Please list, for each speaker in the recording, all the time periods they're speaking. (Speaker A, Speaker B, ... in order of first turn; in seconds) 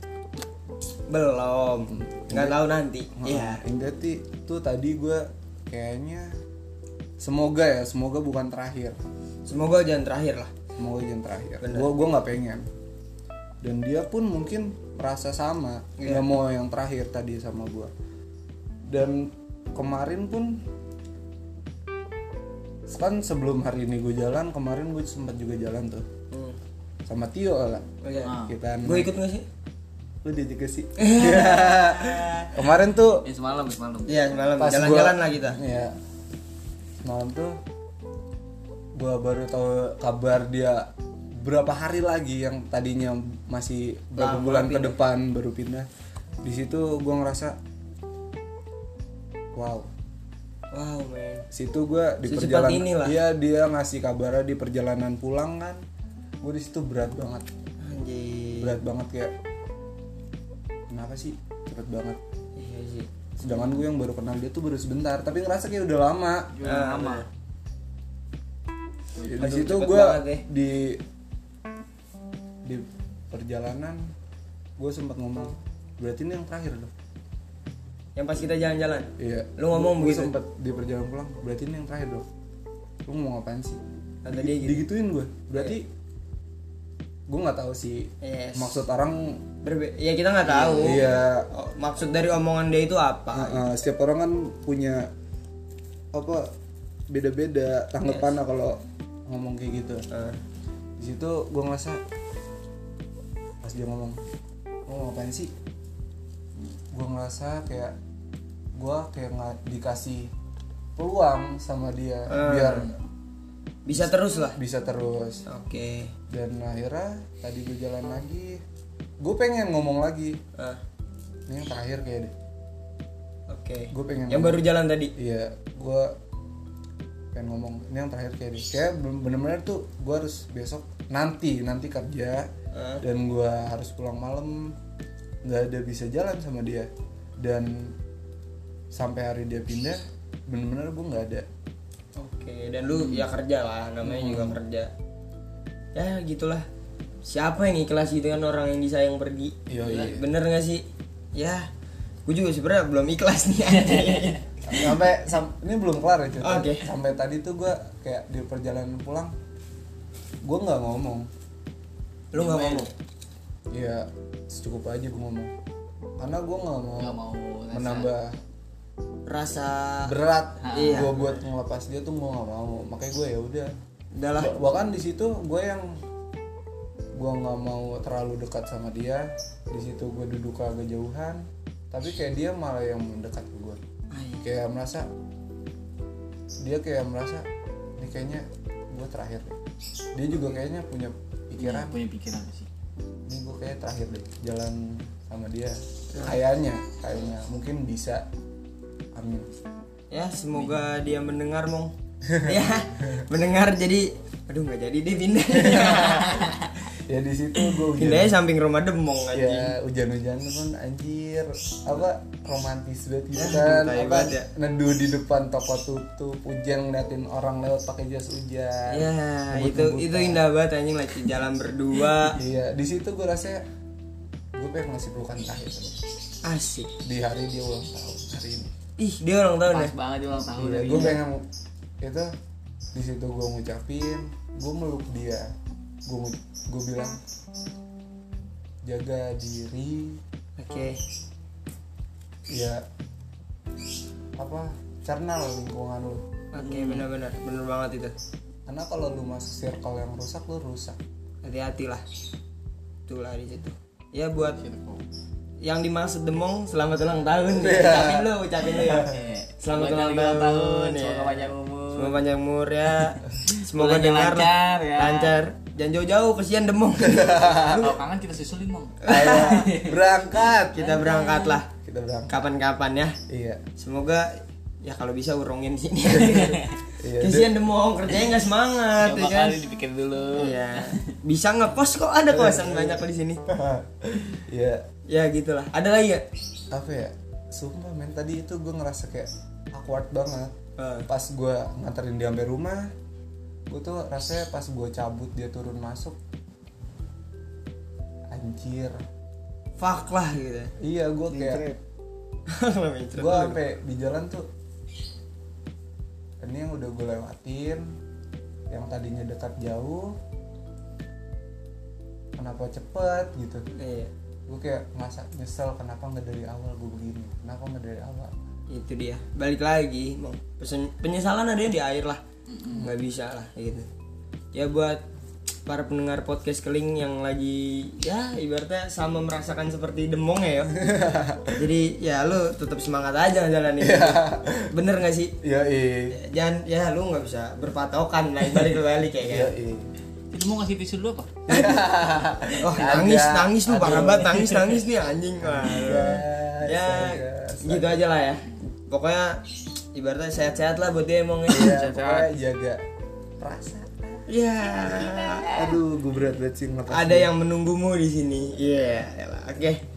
Speaker A: 1.1-3.6, 9.4-10.5, 11.6-11.9, 16.0-16.2, 26.3-26.6, 28.0-29.5, 31.0-32.5, 34.1-35.6, 44.2-45.0, 50.7-51.5, 52.2-53.2, 57.8-58.8, 62.5-63.1, 66.6-67.2, 69.4-70.4, 78.2-80.3, 84.2-84.8, 88.2-88.8, 89.6-93.6, 100.1-100.4, 112.3-112.9, 113.8-114.6, 115.5-116.1, 120.5-120.8, 123.5-125.1, 132.7-133.0, 142.2-144.9, 145.9-146.7, 147.2-151.7, 152.2-155.1, 156.4-156.9, 162.3-162.9, 169.2-170.1, 170.7-171.4, 174.1-174.5, 184.1-184.4, 196.1-196.4, 200.1-206.7, 207.9-209.8, 213.3-214.5, 218.9-222.4, 226.4-226.9, 229.0-229.9, 230.9-231.2, 240.6-241.0, 246.5-248.2, 251.4-252.0, 253.1-254.6, 255.6-268.0, 269.0-269.7, 270.7-271.7, 272.3-273.2, 273.8-276.6, 277.2-279.6, 280.4-283.4, 285.1-286.2, 290.8-291.1, 299.8-300.7, 301.3-301.7, 302.5-303.6, 313.7-314.1, 318.7-322.2, 322.7-323.9, 324.5-325.0, 325.6-330.8, 331.5-335.3, 336.1-339.5, 341.5-341.8, 342.6-351.8, 354.3-355.8, 356.9-359.8
Speaker B: 1.9-2.6, 3.1-6.3, 7.2-9.0, 10.8-12.7, 13.6-17.9, 18.9-20.6, 22.9-26.1, 27.1-27.9, 28.4-29.1, 30.2-33.2, 34.6-35.9, 37.0-37.6, 39.0-45.9, 46.4-47.6, 49.5-49.9, 51.5-55.8, 56.4-57.5, 58.6-59.3, 60.9-62.2, 63.4-66.6, 69.2-71.0, 72.6-74.1, 74.8-76.9, 79.2-82.2, 83.1-85.9, 87.3-89.4, 90.7-91.5, 93.3-95.1, 96.1-96.5, 97.1-100.0, 101.0-102.0, 103.6-104.2, 104.9-105.5, 106.9-108.0, 108.7-110.3, 111.0-112.9, 113.9-115.5, 116.3-118.6, 119.2-120.4, 121.5-122.3, 123.9-124.6, 125.2-126.1, 127.3-132.5, 133.0-134.7, 135.4-137.9, 138.9-141.4, 144.0-144.6, 149.7-150.2, 154.7-159.3, 160.4-161.3, 163.7-165.5, 166.2-167.2, 167.7-168.3, 170.0-173.7, 174.4-176.0, 177.1-183.8, 184.4-185.1, 186.6-187.5, 188.0-189.6, 190.1-192.0, 193.3-198.3, 199.1-199.5, 202.3-203.2, 205.5-206.5, 207.1-208.4, 209.3-220.4, 222.3-223.6, 224.5-226.0, 227.0-228.7, 230.6-231.4, 232.0-232.3, 232.9-235.5, 236.1-237.2, 238.8-240.2, 242.5-242.8, 244.3-246.4, 248.7-251.0, 257.6-258.3, 267.0-267.9, 269.1-270.9, 271.7-272.4, 273.3-273.6, 277.0-277.5, 282.3-284.9, 286.7-290.5, 291.1-292.9, 293.7-296.2, 298.3-299.0, 300.8-301.7, 303.2-304.4, 306.4-307.9, 308.7-310.1, 312.4-313.6, 314.5-318.3, 330.8-331.6, 333.8-334.7, 335.4-336.2, 339.3-339.9, 341.5-344.6, 345.5-348.0, 351.5-352.8, 353.4-354.2, 355.5-357.3
Speaker C: 28.2-28.5, 33.2-34.2, 63.5-63.8, 66.5-67.2, 69.1-69.5, 142.9-143.2, 153.9-154.3, 162.3-162.9, 167.0-168.1, 170.6-171.2, 191.6-192.7, 229.7-231.2, 246.7-247.0, 254.6-255.0, 258.8-262.2, 263.5-265.4, 267.7-270.1, 270.8-271.6, 276.3-276.7, 279.0-281.1, 322.5-322.9, 340.3-341.3, 351.5-352.3